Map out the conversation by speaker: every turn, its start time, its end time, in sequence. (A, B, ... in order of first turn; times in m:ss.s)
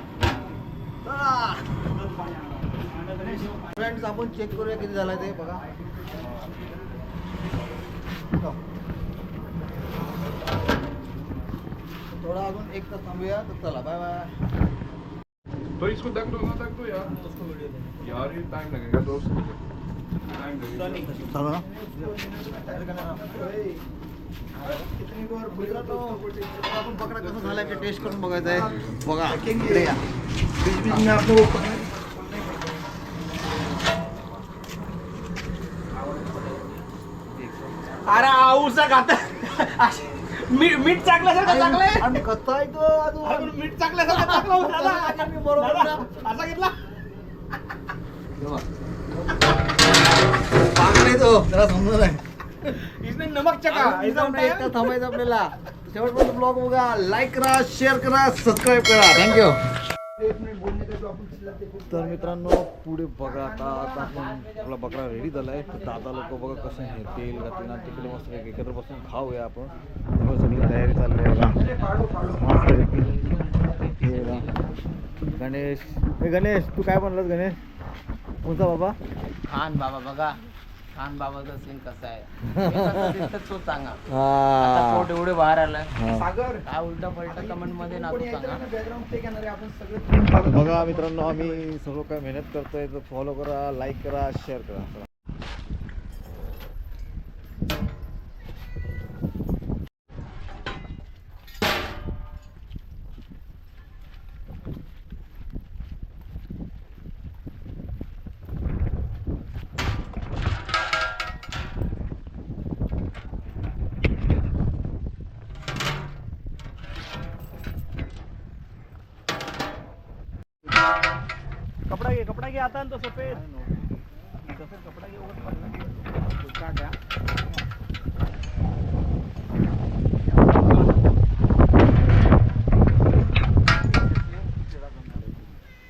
0:01.0-0:01.7 A
0:02.0-0:03.9 B
0:03.2-0:05.6 A
0:12.1-0:14.3 A
0:15.8-0:17.2 C
0:17.0-0:18.0 B
0:18.0-0:19.6 C
0:20.4-0:21.0 C
0:20.7-0:21.2 B
0:21.2-0:22.1 A
0:21.7-0:23.8 D
0:22.8-0:23.2 A
0:24.6-0:26.6 D
0:25.5-0:30.0 A
0:27.6-0:28.4 C
0:28.4-0:30.0 D
0:30.6-0:32.9 D
0:38.0-0:42.2 B
0:41.4-0:46.2 A
0:43.2-0:46.8 B
0:50.6-0:52.2 A
0:52.7-0:55.0 B
0:53.7-0:59.6 A
1:00.2-1:02.4 D
1:01.9-1:11.6 A
1:03.2-1:04.1 D
1:06.1-1:07.0 E
1:07.0-1:08.3 D
1:11.5-1:12.9 D
1:12.4-1:13.1 A
1:13.4-1:14.7 E
1:14.0-1:14.5 A
1:15.4-1:17.6 A
1:18.4-1:19.0 A
1:19.4-1:20.4 E
1:20.9-1:24.0 E
1:22.5-1:23.3 A
1:24.1-1:25.1 A
1:24.6-1:25.9 E
1:25.9-1:26.3 A
1:26.1-1:26.6 D
1:26.7-1:28.6 E
1:27.2-1:31.7 D
1:30.4-1:35.1 A
2:01.9-2:03.4 B
2:04.5-2:07.0 B
2:13.9-2:15.6 A